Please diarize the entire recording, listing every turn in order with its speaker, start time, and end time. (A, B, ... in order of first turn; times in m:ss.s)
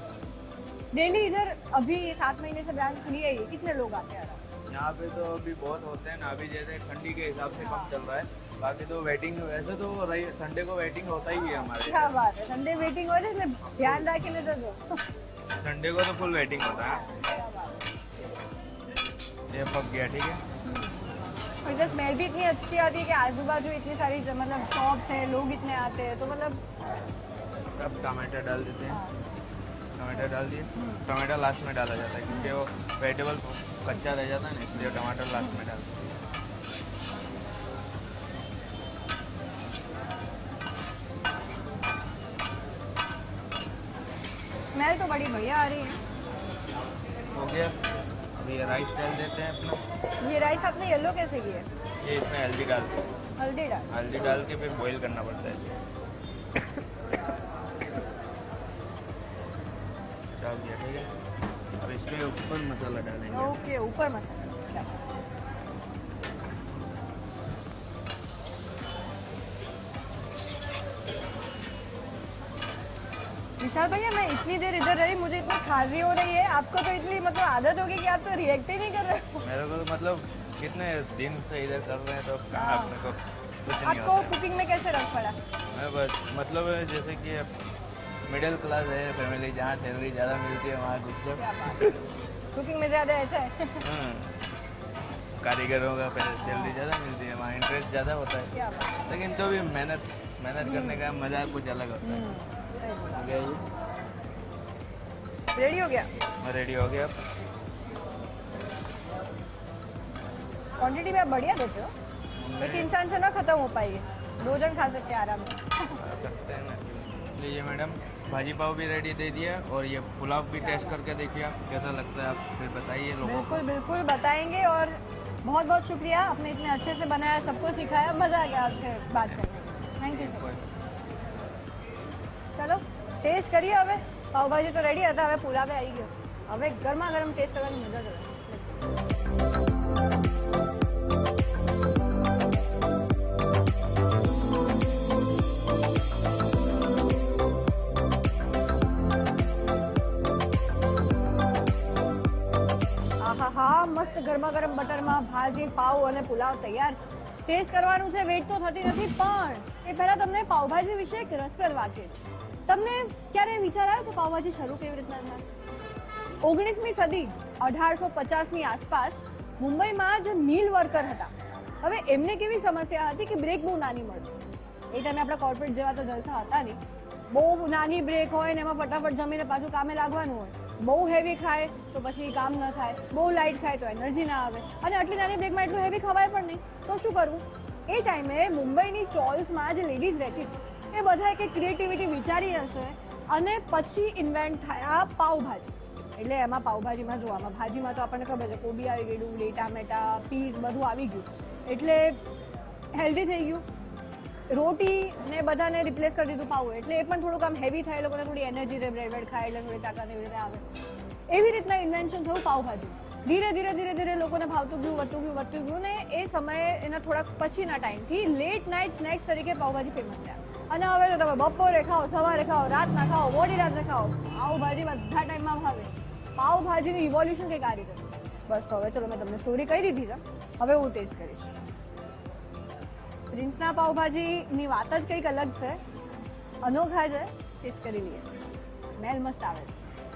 0:00.9-0:04.4 A
0:04.7-0:12.1 B
0:07.6-0:07.9 A
0:11.9-0:15.0 A
0:12.7-0:13.0 B
0:13.6-0:14.1 B
0:15.6-0:17.0 B
0:16.8-0:17.8 A
0:19.5-0:20.4 B
0:20.6-0:21.0 A
0:21.6-0:26.6 A
0:27.8-0:29.0 B
0:30.0-0:36.2 B
0:30.2-0:31.0 A
0:32.3-0:32.5 A
0:44.7-0:46.0 A
0:47.3-0:47.7 B
0:48.4-0:49.8 B
0:50.2-0:51.7 A
0:52.0-0:53.0 B
0:53.4-0:53.8 A
0:53.9-0:55.7 B
1:00.4-1:01.1 B
1:01.8-1:03.5 B
1:03.3-1:04.9 A
1:13.6-1:19.4 A
1:19.4-1:24.4 B
1:22.5-1:23.0 A
1:23.8-1:25.4 A
1:25.7-1:27.5 B
1:28.3-1:32.0 B
1:31.4-1:32.0 A
1:32.5-1:33.8 A
1:33.8-1:34.3 B
1:35.4-1:38.5 B
1:36.4-1:36.7 A
1:38.6-1:39.0 A
1:39.1-1:42.3 B
1:40.6-1:41.0 A
1:42.0-1:43.2 A
1:43.1-1:43.6 B
1:45.6-1:46.1 A
1:46.4-1:47.1 B
1:50.8-1:51.9 A
1:52.4-1:52.9 B
1:52.6-1:56.0 A
1:56.0-2:03.6 B
2:00.6-2:01.0 A
2:03.2-2:10.4 A
2:10.0-2:10.6 B
2:12.6-2:18.8 A
2:33.2-2:45.4 A
2:46.4-2:54.3 A
2:54.9-3:22.2 A
3:23.0-3:23.6 A
3:24.5-3:30.6 A
3:31.3-3:51.5 A
3:53.3-3:55.8 A
3:56.6-3:58.3 A
3:59.0-3:59.7 A